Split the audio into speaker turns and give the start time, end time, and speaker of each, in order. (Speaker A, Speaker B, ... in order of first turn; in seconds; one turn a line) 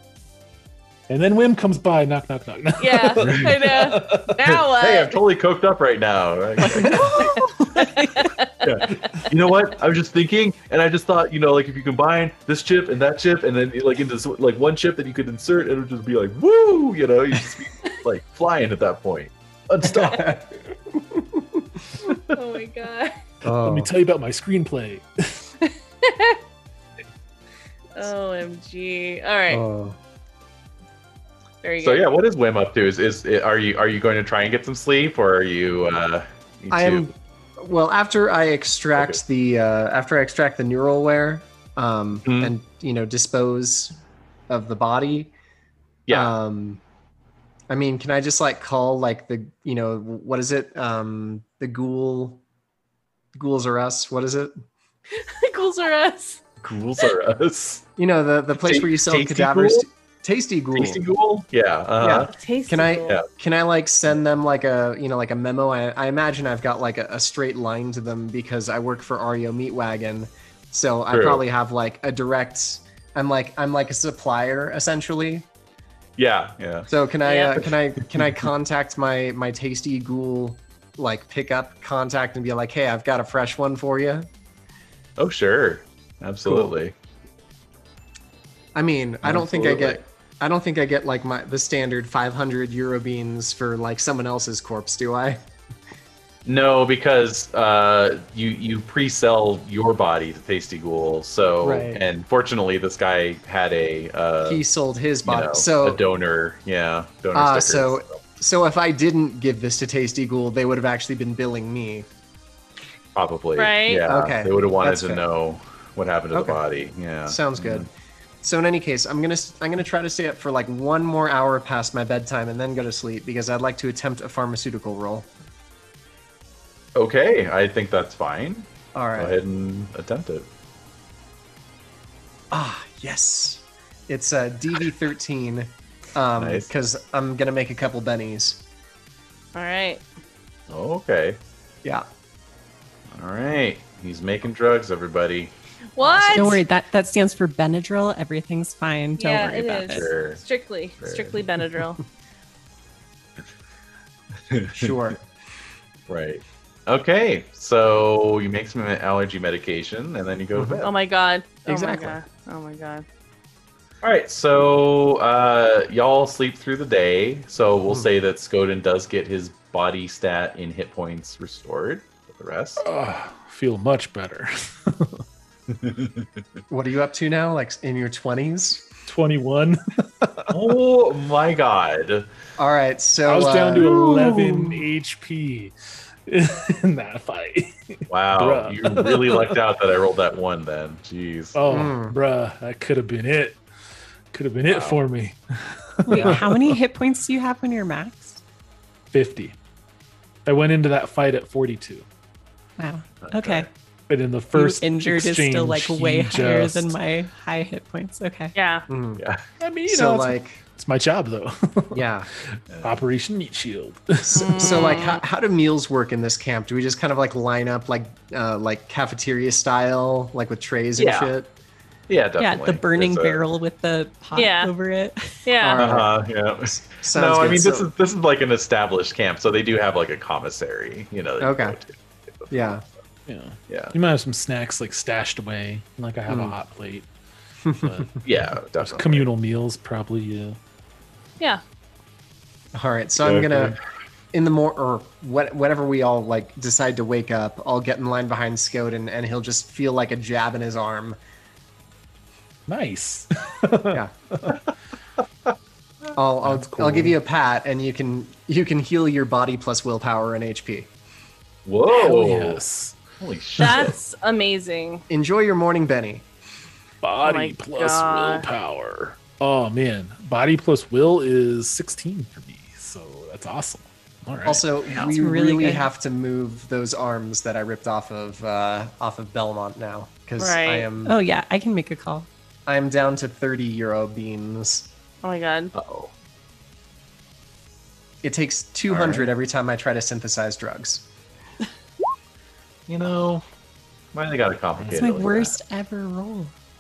Speaker A: 1.1-4.4
Speaker B: 2.8-5.2
Speaker C: 4.4-7.4
Speaker D: 6.6-8.3
Speaker B: 8.0-8.9
Speaker C: 8.6-20.4
Speaker E: 19.9-20.4
Speaker E: 21.1-21.6
Speaker B: 22.0-23.2
Speaker E: 23.4-23.9
Speaker A: 23.6-25.4
Speaker B: 26.0-26.4
Speaker B: 27.9-29.6
Speaker E: 29.5-30.0
Speaker B: 31.6-32.0
Speaker C: 31.8-37.1
Speaker E: 36.7-44.0
Speaker C: 42.2-42.5
Speaker E: 44.5-45.3
Speaker C: 46.1-46.3
Speaker E: 46.1-46.8
Speaker E: 47.7-52.4
Speaker E: 53.3-54.5
Speaker B: 55.1-56.4
Speaker C: 56.6-57.8
Speaker E: 58.0-61.0
Speaker C: 58.6-59.9
Speaker C: 60.7-62.3
Speaker E: 62.0-75.5
Speaker B: 62.3-63.2
Speaker C: 71.1-71.4
Speaker C: 76.2-76.9
Speaker E: 76.9-84.3
Speaker B: 77.2-77.6
Speaker C: 85.2-87.0
Speaker E: 88.8-95.4
Speaker C: 89.2-90.0
Speaker C: 96.5-104.6
Speaker E: 101.6-102.0
Speaker E: 104.4-106.0
Speaker C: 105.2-108.2
Speaker E: 107.3-112.1
Speaker C: 113.1-117.9
Speaker B: 113.6-114.1
Speaker E: 114.1-115.2
Speaker E: 116.3-116.6
Speaker E: 117.2-117.9
Speaker E: 118.4-125.3
Speaker C: 127.0-130.5
Speaker E: 128.9-129.4
Speaker E: 132.5-138.6
Speaker C: 136.4-136.7
Speaker B: 139.5-140.0
Speaker C: 140.7-141.4
Speaker C: 143.1-145.5
Speaker B: 145.9-146.6
Speaker E: 146.1-146.5
Speaker D: 146.3-150.1
Speaker B: 149.2-152.0
Speaker C: 149.9-150.4
Speaker C: 151.0-151.4
Speaker C: 154.5-154.9
Speaker E: 154.7-155.2
Speaker C: 156.1-160.9
Speaker E: 160.5-160.8
Speaker B: 160.8-163.0
Speaker E: 161.7-162.2
Speaker C: 164.0-172.8
Speaker A: 172.8-175.2
Speaker C: 175.8-176.2
Speaker E: 176.7-178.9
Speaker A: 179.1-180.5
Speaker C: 180.5-182.3
Speaker E: 182.6-184.6
Speaker A: 183.2-185.7
Speaker C: 183.8-184.1
Speaker A: 186.2-189.6
Speaker C: 188.1-191.7
Speaker A: 191.5-193.6
Speaker E: 191.7-192.2
Speaker A: 194.3-196.8
Speaker C: 194.7-195.0
Speaker D: 196.1-198.4
Speaker E: 196.1-196.4
Speaker A: 199.1-199.6
Speaker A: 200.4-202.0
Speaker D: 202.8-203.7
Speaker C: 203.2-203.7
Speaker A: 204.1-206.9
Speaker D: 204.5-208.5
Speaker B: 208.5-208.9
Speaker E: 208.9-209.2
Speaker C: 209.2-209.4
Speaker A: 209.6-214.8
Speaker E: 209.9-210.6
Speaker E: 211.9-212.3
Speaker C: 212.7-213.0
Speaker E: 214.2-221.5
Speaker B: 214.3-215.2
Speaker C: 221.0-221.3
Speaker C: 222.1-223.4
Speaker D: 222.4-225.4
Speaker B: 224.3-224.7
Speaker B: 225.4-225.9
Speaker E: 225.6-226.1
Speaker C: 225.8-232.7
Speaker E: 226.7-227.9
Speaker E: 231.4-231.8
Speaker E: 232.5-232.8
Speaker A: 233.3-237.1
Speaker C: 233.7-233.9
Speaker E: 236.3-236.5
Speaker E: 237.6-238.1
Speaker A: 237.8-240.6
Speaker C: 238.2-239.3
Speaker E: 242.7-243.8
Speaker C: 243.2-243.8
Speaker E: 244.3-251.2
Speaker A: 252.7-254.6
Speaker E: 256.2-260.9
Speaker A: 256.4-257.2
Speaker C: 261.6-262.6
Speaker A: 261.9-263.0
Speaker C: 263.2-264.0
Speaker B: 263.6-265.0
Speaker E: 265.1-266.2
Speaker A: 267.0-274.7
Speaker B: 267.2-268.5
Speaker E: 274.4-281.2
Speaker C: 274.9-275.2
Speaker D: 275.0-275.9
Speaker B: 280.4-280.9
Speaker D: 281.0-282.3
Speaker E: 282.7-284.9
Speaker B: 285.2-285.7
Speaker C: 285.7-286.1
Speaker E: 288.2-291.1
Speaker C: 288.9-289.3
Speaker C: 292.9-293.4
Speaker C: 294.1-295.6
Speaker A: 294.8-295.1
Speaker D: 294.9-296.5